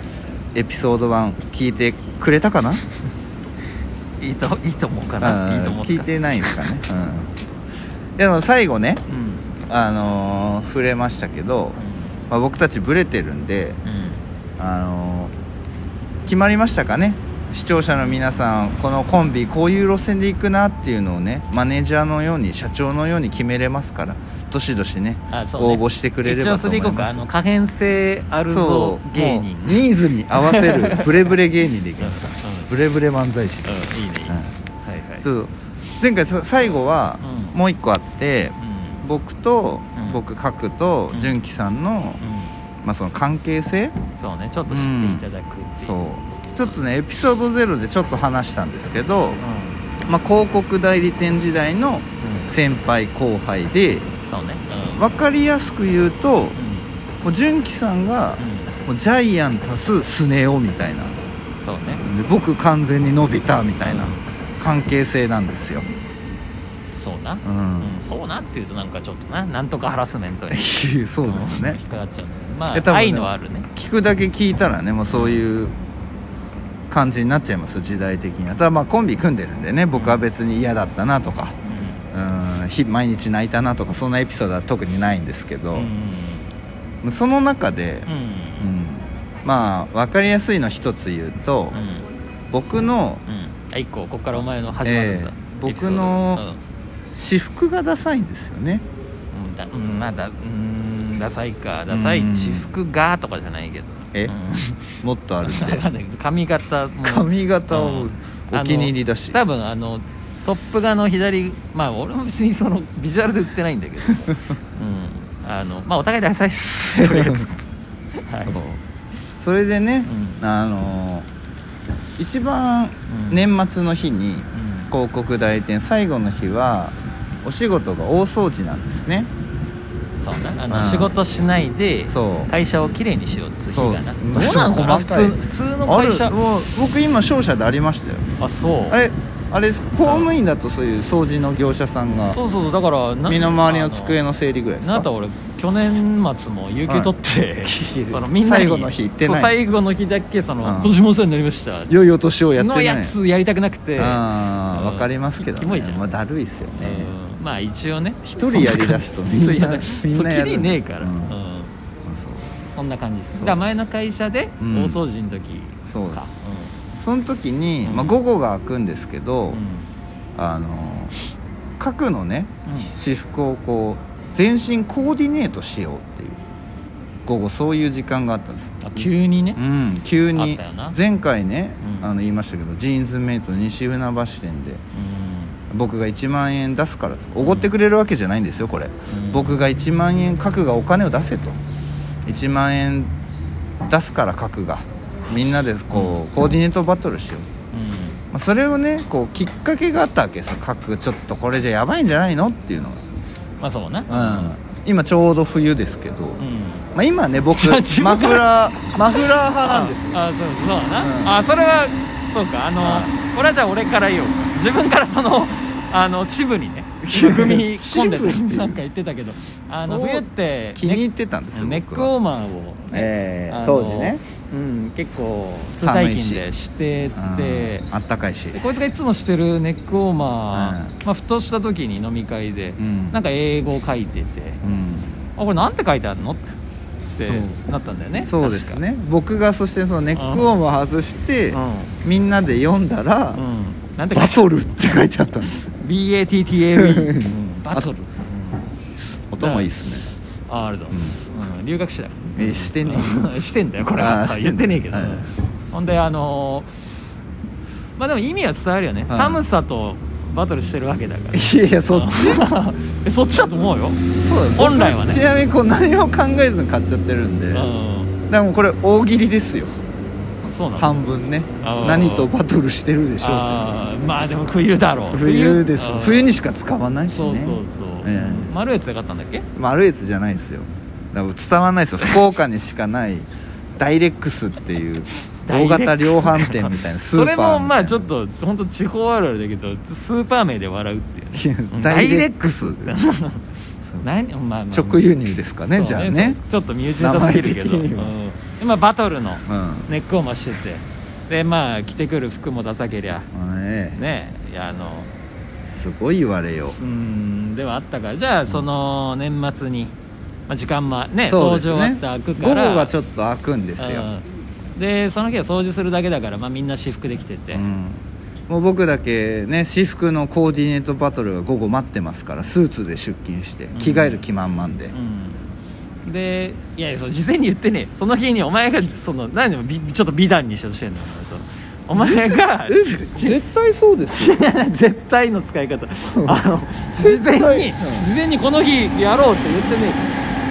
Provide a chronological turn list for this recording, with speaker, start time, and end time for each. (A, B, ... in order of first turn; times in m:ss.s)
0:00.5-0:02.8 A
0:04.2-0:06.6 B
0:05.2-0:07.3 A
0:08.2-0:09.0 A
0:09.1-0:09.4 B
0:09.7-0:11.8 A
0:11.8-0:12.1 B
0:12.3-0:13.8 A
0:13.8-0:14.2 B
0:14.6-0:15.3 A
0:16.2-0:27.2 A
0:25.3-0:31.3 B
0:28.5-0:34.5 A
0:32.0-0:32.7 B
0:33.6-0:35.3 B
0:35.2-0:42.2 A
0:37.2-0:37.6 B
0:38.6-0:39.0 B
0:40.0-0:40.2 B
0:41.1-0:41.4 B
0:42.2-0:42.5 B
0:42.8-0:44.0 A
0:44.2-0:46.0 B
0:44.7-0:45.2 A
0:45.8-0:49.4 A
0:49.4-0:49.8 B
0:50.1-0:54.1 A
0:52.2-0:52.5 B
0:54.3-0:55.0 B
0:55.0-0:56.6 A
0:56.6-0:56.9 B
0:57.2-1:01.2 A
0:58.4-0:58.7 B
1:01.6-1:02.0 B
1:01.9-1:05.8 A
1:03.8-1:04.2 B
1:06.9-1:10.7 B
1:07.4-1:08.0 A
1:10.5-1:11.8 A
1:11.2-1:13.7 B
1:12.7-1:15.7 A
1:15.1-1:15.4 B
1:16.9-1:21.6 A
1:19.9-1:20.3 B
1:21.6-1:22.0 B
1:22.1-1:25.9 A
1:25.7-1:26.5 B
1:27.0-1:28.1 A
1:28.1-1:28.7 B
1:28.6-1:31.8 A
1:31.7-1:32.1 B
1:32.5-1:33.2 A
1:33.3-1:36.6 B
1:34.3-1:36.4 A
1:37.1-1:38.8 A
1:39.3-1:57.6 B
1:41.9-1:42.7 A
1:45.0-1:45.8 A
1:47.0-1:49.4 A
1:56.9-1:57.5 A
1:58.2-1:58.6 B
1:58.5-1:58.8 A
1:59.4-2:01.3 A
2:00.1-2:00.4 B
2:02.2-2:09.3 A
2:03.1-2:03.5 B
2:04.5-2:04.9 B
2:10.2-2:16.3 B
2:10.7-2:11.1 A
2:12.1-2:12.5 A
2:13.7-2:18.2 A
2:18.4-2:19.0 B
2:18.9-2:22.4 A
2:20.0-2:20.3 B
2:22.3-2:24.2 B
2:23.2-2:25.0 A
2:24.8-2:31.9 B
2:26.8-2:29.5 A
2:30.6-2:31.0 A
2:31.9-2:33.2 A
2:32.5-2:36.1 B
2:34.0-2:37.1 A
2:36.8-2:41.7 B
2:38.2-2:41.3 A
2:42.0-2:42.5 A
2:42.7-2:46.8 B
2:43.4-2:43.6 A
2:44.6-2:45.0 A
2:45.8-2:46.2 A
2:46.9-2:49.6 A
2:47.8-2:48.2 B
2:49.5-2:49.8 B
2:50.4-2:51.2 A
2:51.8-2:56.4 A
2:52.6-2:52.9 B
2:57.2-3:04.8 A
2:58.8-2:59.6 B
3:00.3-3:01.0 B
3:01.8-3:02.1 B
3:04.9-3:05.6 B
3:05.7-3:11.6 A
3:07.4-3:07.7 B
3:09.1-3:09.6 B
3:12.2-3:13.1 A
3:13.9-3:17.5 A
3:15.9-3:16.2 B
3:17.7-3:18.2 B
3:18.3-3:23.0 A
3:23.6-3:24.5 B
3:24.1-3:26.4 A
3:26.4-3:26.9 B
3:26.9-3:30.2 A
3:27.5-3:28.5 B
3:29.1-3:47.9 B
3:30.9-3:31.4 A
3:32.8-3:33.1 A
3:37.0-3:38.8 A
3:39.7-3:42.1 A
3:42.9-3:44.2 A
3:45.8-3:46.4 A
3:47.1-3:48.6 A
3:48.5-3:54.6 B
3:50.5-3:50.9 A
3:52.8-3:53.2 A
3:54.6-3:55.2 A
3:55.4-3:56.5 B
3:57.2-3:58.8 B
3:58.2-4:03.4 A
4:00.1-4:00.5 B
4:01.5-4:01.9 B
4:03.3-4:04.4 B
4:04.1-4:05.7 A
4:05.7-4:08.6 B
4:06.7-4:07.9 A
4:09.3-4:10.1 A
4:09.4-4:09.7 B
4:10.5-4:16.7 B
4:10.9-4:11.2 A
4:12.4-4:13.3 A
4:13.9-4:15.3 A
4:18.0-4:24.0 B
4:19.1-4:19.4 A
4:21.3-4:22.4 A
4:24.2-4:27.7 A
4:24.6-4:25.2 B
4:27.5-4:28.1 B
4:28.3-4:29.7 A
4:30.4-4:31.0 B
4:30.8-4:33.7 A
4:31.6-4:32.3 B
4:33.2-4:36.3 B
4:35.1-4:38.5 A
4:37.1-4:39.4 B
4:39.6-4:48.1 A
4:45.4-4:53.4 B
4:51.3-4:53.0 A
4:53.8-4:54.1 A
4:54.0-4:55.0 B
4:54.7-4:56.4 A
4:55.7-5:03.3 B
4:57.0-4:58.1 A
4:59.5-4:59.9 A
5:03.3-5:04.0 A
5:03.9-5:05.1 B
5:05.6-5:06.8 A
5:06.6-5:09.9 B
5:10.5-5:12.9 B
5:11.2-5:14.1 A
5:13.8-5:14.2 B
5:14.8-5:17.6 B
5:17.5-5:24.9 A
5:23.7-5:24.2 B
5:24.9-5:25.4 B
5:26.0-5:33.4 B
5:31.9-5:34.4 A
5:34.1-5:40.1 B
5:36.9-5:38.1 A